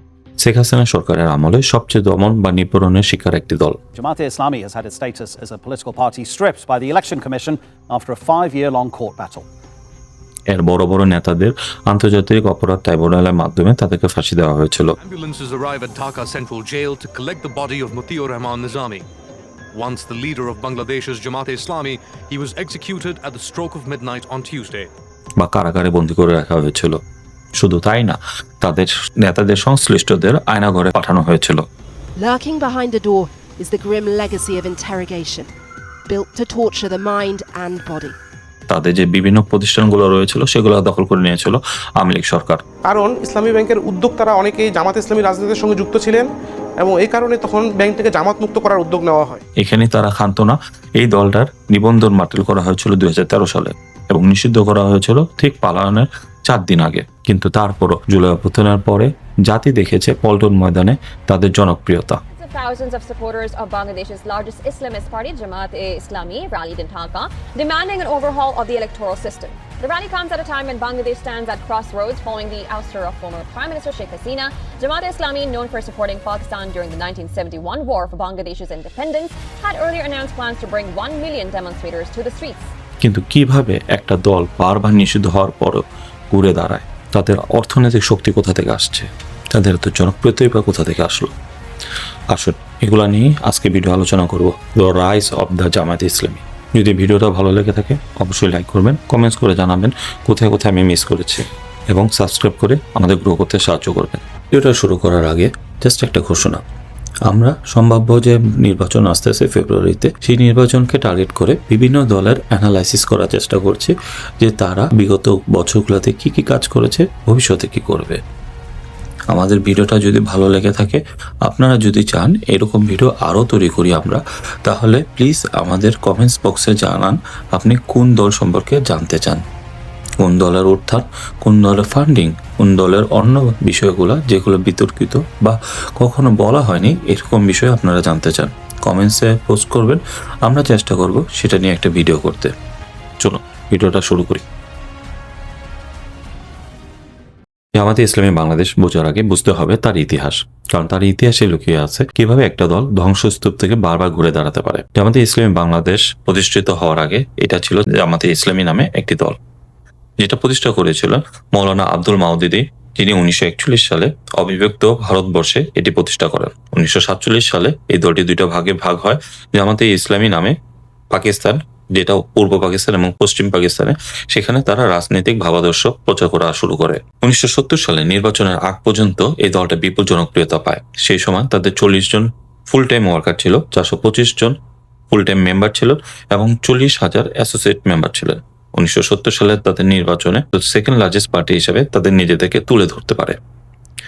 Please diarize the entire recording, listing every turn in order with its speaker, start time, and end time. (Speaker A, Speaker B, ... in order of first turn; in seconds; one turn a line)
Speaker A: 0.4-3.8
Speaker B: 3.9-9.5
Speaker A: 10.5-14.9
Speaker C: 15.0-19.1
Speaker C: 19.7-24.9
Speaker A: 25.4-27.0
Speaker A: 27.6-31.6
Speaker D: 32.2-35.5
Speaker D: 36.1-38.2
Speaker A: 38.7-42.6
Speaker E: 42.9-46.3
Speaker E: 46.8-49.4
Speaker A: 49.6-62.2
Speaker F: 62.3-82.7
Speaker A: 83.0-91.3
Speaker A: 92.3-106.6
Speaker A: 107.3-118.2
Speaker A: 119.3-129.4
Speaker A: 130.2-142.5
Speaker A: 143.2-144.4
Speaker A: 147.8-159.3
Speaker A: 160.2-170.5
Speaker A: 171.1-184.5
Speaker A: 185.1-193.4